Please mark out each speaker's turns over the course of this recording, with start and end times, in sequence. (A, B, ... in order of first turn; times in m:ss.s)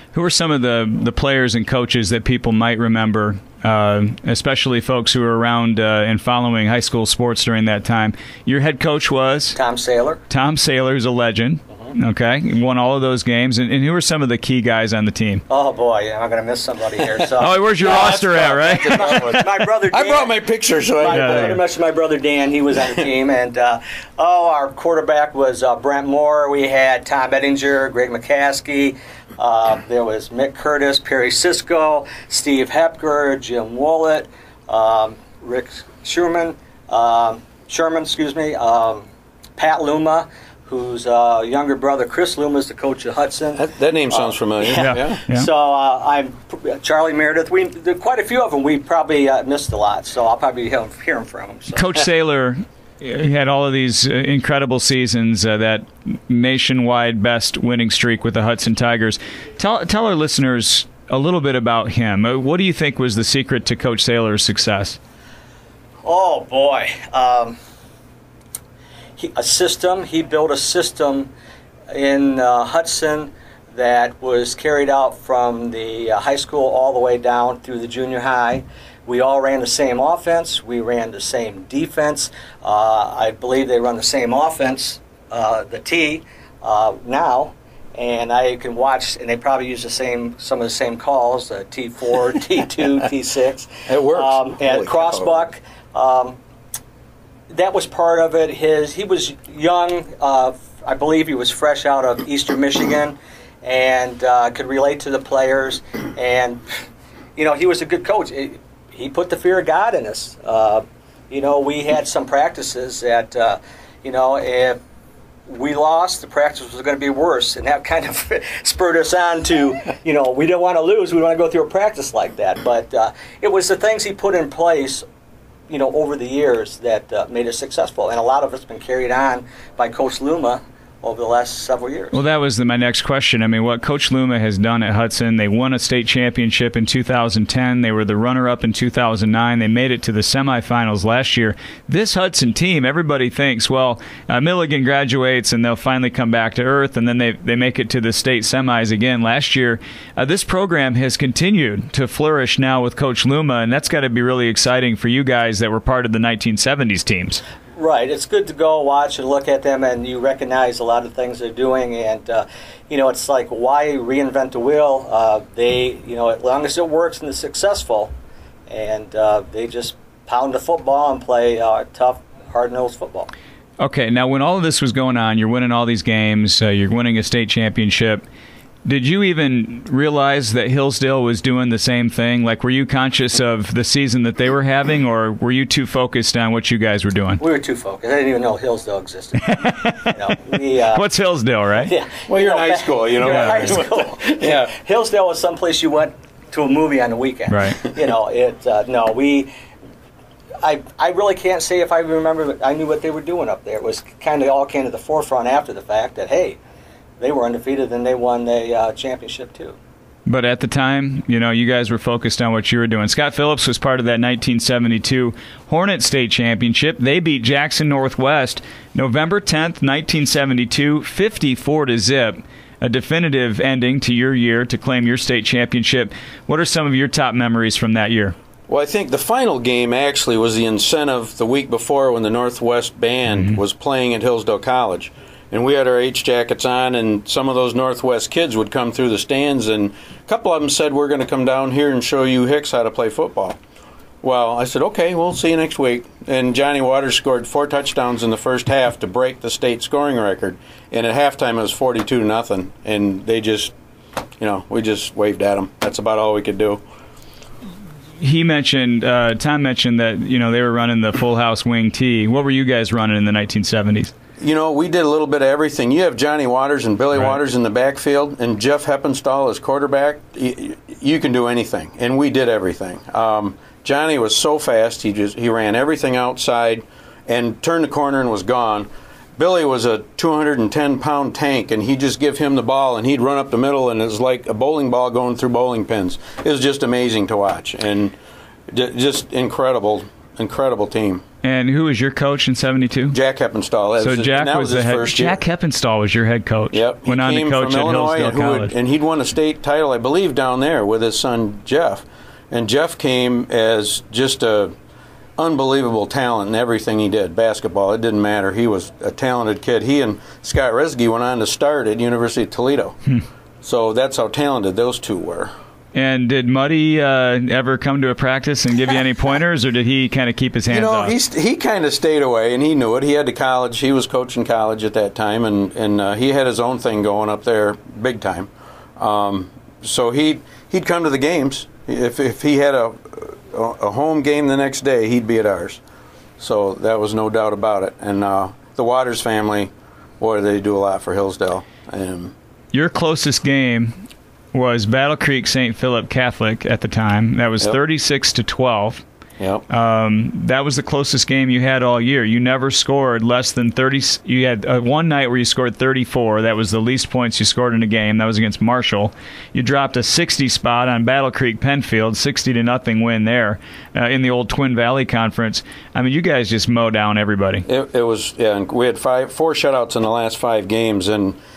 0:00.1-0:09.6 A
0:09.6-0:10.2 B
0:10.3-0:15.4 A
0:15.5-0:20.4 B
0:17.4-0:19.4 A
0:17.8-0:21.6 C
0:20.9-0:39.0 B
0:21.0-0:21.6 A
0:39.6-0:52.0 B
0:43.6-0:45.2 C
0:44.8-0:45.5 A
0:51.7-1:05.0 A
1:06.0-1:07.6 B
1:09.2-1:11.3 B
1:11.9-1:36.4 B
1:33.9-1:35.5 C
1:37.5-1:46.6 B
1:47.4-1:54.8 B
1:55.5-2:05.0 B
2:05.7-2:12.2 B
2:12.1-2:37.4 A
2:37.8-2:48.1 B
2:48.7-2:53.3 B
2:53.8-2:58.2 A
2:58.8-3:07.4 A
3:07.4-3:11.1 B
3:09.5-3:10.3 A
3:10.9-3:11.9 A
3:11.8-3:19.5 B
3:12.3-3:14.7 C
3:13.2-3:13.8 A
3:17.5-3:17.8 A
3:20.6-3:26.6 B
3:27.2-3:29.8 B
3:30.2-3:48.4 A
3:48.7-4:03.6 C
3:53.3-3:53.6 A
4:04.2-4:13.7 C
4:14.4-4:16.8 C
4:18.2-4:24.1 A
4:24.4-4:48.2 C
4:48.7-4:51.2 C
4:51.4-4:53.2 A
4:53.1-4:55.4 C
4:54.0-4:58.8 A
4:56.7-5:04.7 C
5:05.4-5:13.0 C
5:13.6-5:15.5 C
5:16.0-5:21.1 A
5:20.7-5:35.8 C
5:36.4-5:42.3 C
5:42.7-5:44.0 A
5:44.5-5:49.0 A
5:49.4-5:49.6 C
5:49.7-6:07.6 A
6:07.7-6:11.4 C